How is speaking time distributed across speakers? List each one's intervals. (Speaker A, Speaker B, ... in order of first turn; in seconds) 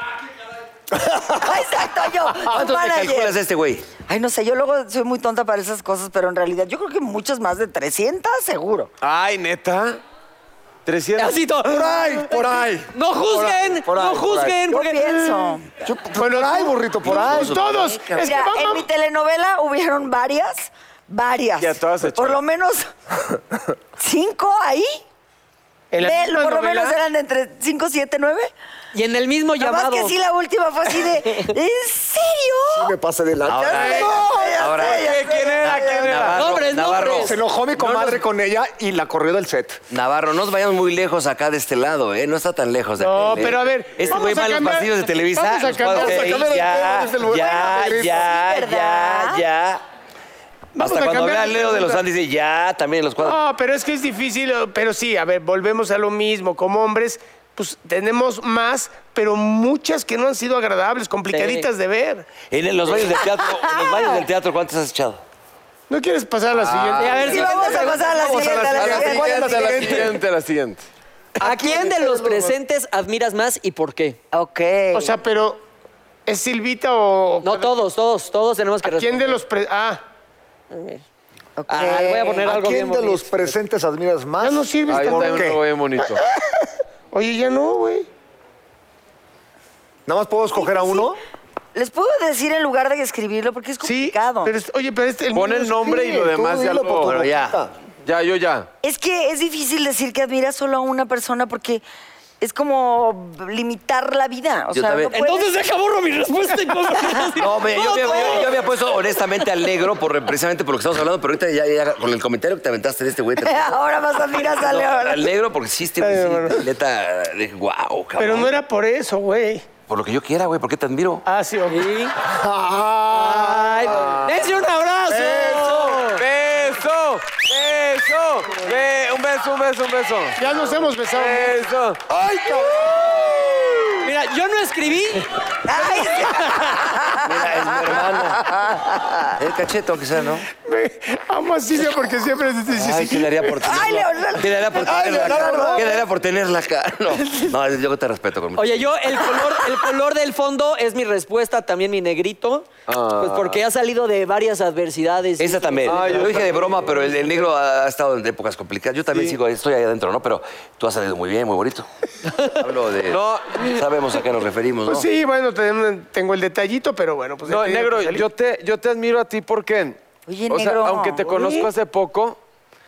Speaker A: 1.3-3.4, 4.1-8.9, 14.7-15.7, 18.1-22.9, 24.0-25.0, 26.0-28.5, 29.6-32.9, 33.5-36.4, 47.3-49.4, 63.5-64.2, 67.3-69.9, 71.4-72.5, 74.3-75.1, 81.6-82.4, 90.5-91.1, 91.7-94.5, 98.8-101.8, 102.4-105.5, 106.9-108.5, 113.4-115.3, 135.7-139.3, 143.6-145.9, 170.2-171.2
Speaker B: 2.5-3.9, 17.0-18.4, 33.5-37.4, 39.9-49.8, 50.8-53.4, 62.5-65.2, 97.0-97.6, 104.7-105.1, 107.4-113.8, 114.4-118.5, 119.9-121.2, 137.2-138.5, 139.4-140.5, 142.7-149.2, 155.4-161.9, 162.5-165.1
Speaker C: 9.0-10.0, 10.8-11.4, 21.6-22.4, 34.9-36.4, 37.8-38.2, 66.5-67.5, 68.2-70.9, 84.9-86.2, 95.3-97.3, 98.0-98.7, 124.0-124.3, 126.2-132.0, 152.9-153.6, 155.8-157.4, 159.1-159.4, 163.1-163.8, 167.4-170.0, 170.5-172.4
Speaker D: 11.2-15.4, 28.9-30.1, 36.3-37.4, 61.3-61.7, 67.0-68.7, 71.4-74.2, 77.4-79.3, 80.7-81.0, 81.7-83.5, 105.1-108.5, 121.7-122.1, 123.1-126.2, 134.0-135.3, 148.6-156.1
Speaker E: 11.7-14.6, 15.8-17.6, 32.7-34.5, 37.2-39.8, 45.9-48.4, 68.1-70.2, 82.4-85.6, 90.1-91.2, 95.8-97.7, 122.2-124.2, 125.1-126.1, 132.1-134.0, 144.8-145.9
Speaker F: 16.2-18.9, 25.9-27.0, 43.0-46.5, 50.8-52.0, 53.2-62.3, 65.9-68.5, 74.9-75.6, 76.2-77.8, 78.8-80.0, 84.4-85.5, 87.1-88.1, 93.8-96.0, 116.0-116.6, 118.2-119.7, 121.2-121.9, 130.4-131.6, 140.6-143.6, 164.8-168.2, 171.3-171.7